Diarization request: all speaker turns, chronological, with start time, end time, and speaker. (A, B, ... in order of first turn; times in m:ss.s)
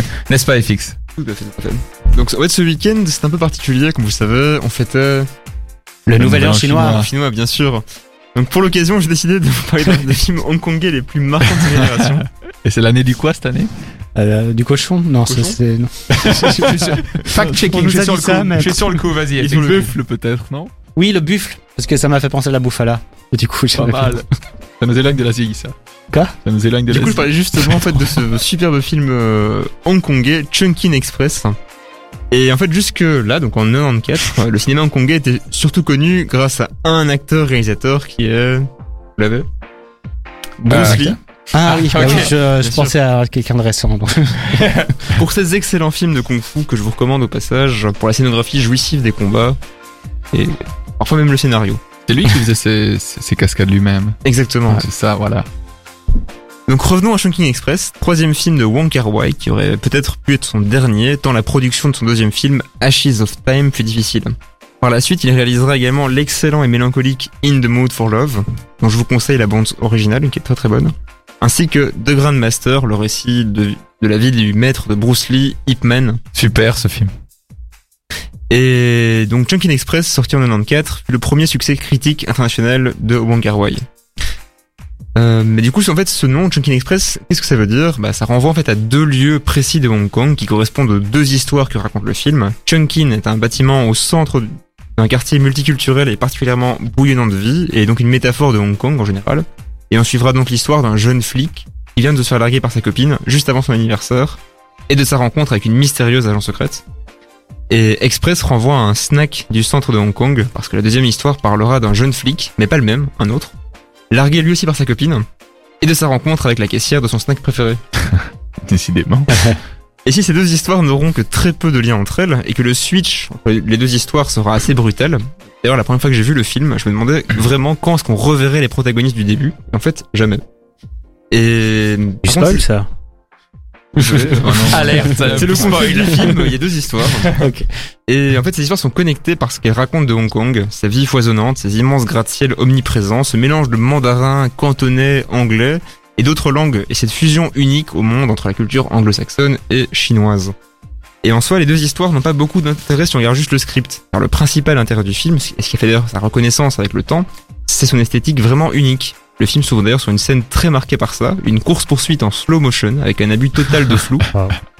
0:00.3-0:01.0 A
0:01.2-0:05.3 B
0:06.0-0:07.0 C
0:06.2-0:07.1 D
0:06.7-0:07.8 B
0:08.3-0:12.2 B
0:12.6-0:13.7 D
0:14.2-0:19.0 C
0:15.2-0:15.6 B
0:16.1-0:17.6 D
0:17.3-0:19.5 A
0:19.4-0:20.7 D
0:19.4-0:19.9 B
0:21.0-0:24.2 C
0:23.7-0:24.2 D
0:24.8-0:25.7 D
0:26.4-0:27.8 D
0:26.9-0:31.6 B
0:32.3-0:38.6 B
0:39.2-0:39.4 B
0:40.6-0:42.9 B
0:40.7-0:44.6 C
0:40.7-0:41.0 A
0:41.6-0:42.3 A
0:44.5-0:45.1 A
0:45.1-0:49.6 B
0:50.3-0:51.8 B
0:52.1-0:54.2 D
0:54.2-0:54.8 B
0:54.7-0:55.4 D
0:56.7-1:16.2 B
1:16.3-1:17.1 A
1:18.5-1:23.8 B
1:25.1-1:46.8 B
1:47.7-1:53.5 B
1:54.1-1:55.2 B
1:55.8-1:57.8 B
1:58.2-1:59.6 D
2:00.0-2:10.4 B
2:11.3-2:12.6 B
2:12.2-2:12.9 C
2:14.0-2:15.0 C
2:14.0-2:17.4 B
2:14.4-2:15.8 D
2:14.7-2:16.4 A
2:17.4-2:17.6 C
2:18.1-2:30.5 B
2:31.2-2:44.3 B